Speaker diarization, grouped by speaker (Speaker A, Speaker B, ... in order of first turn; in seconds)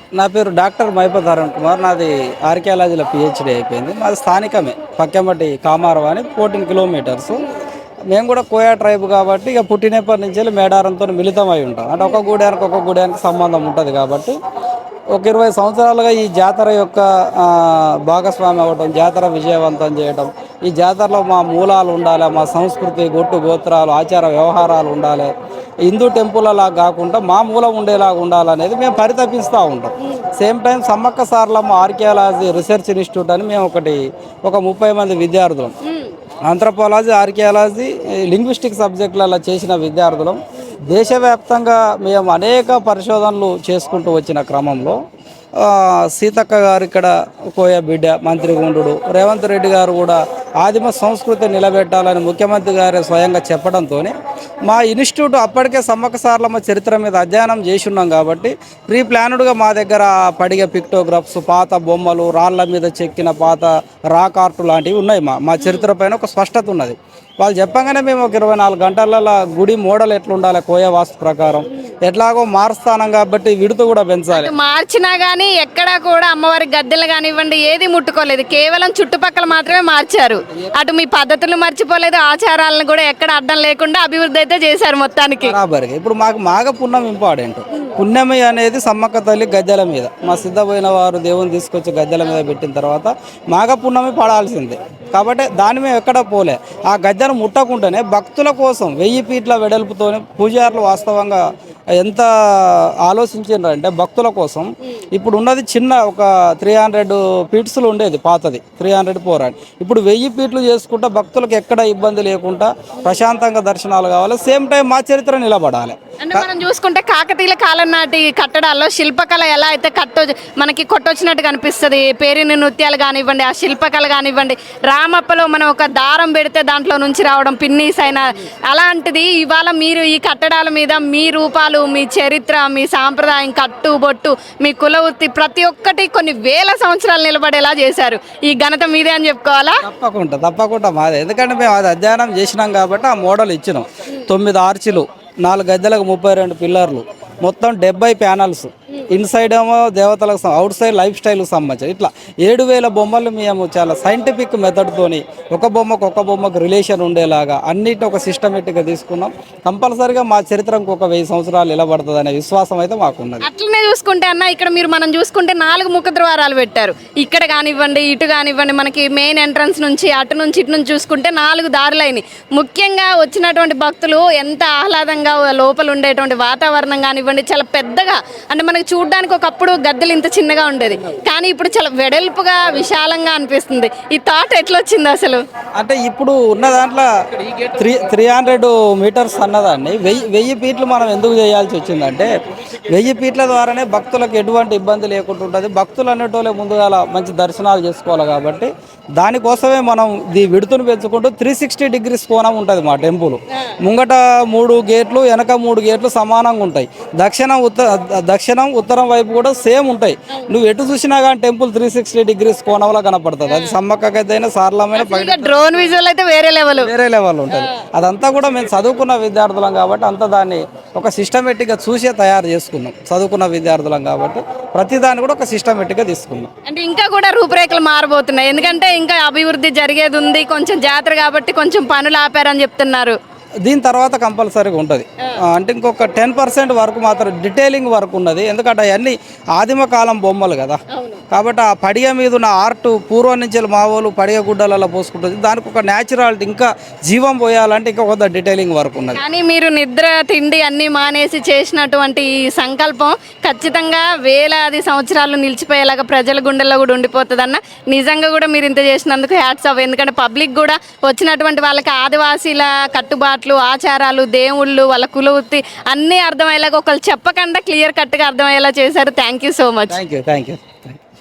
Speaker A: 0.1-7.5, 8.1-14.3, 15.1-25.3, 25.8-35.7, 36.5-40.4, 40.9-45.0, 45.5-54.1, 54.6-74.5, 85.4-101.4, 102.0-116.5, 139.8-163.4, 185.8-192.3, 192.9-215.6, 216.8-226.5, 233.6-249.2, 269.9-271.0
Speaker B: 65.6-65.9, 74.3-85.6, 116.2-139.8, 163.4-185.4, 213.5-213.7, 214.9-216.9, 226.7-233.2, 249.1-270.0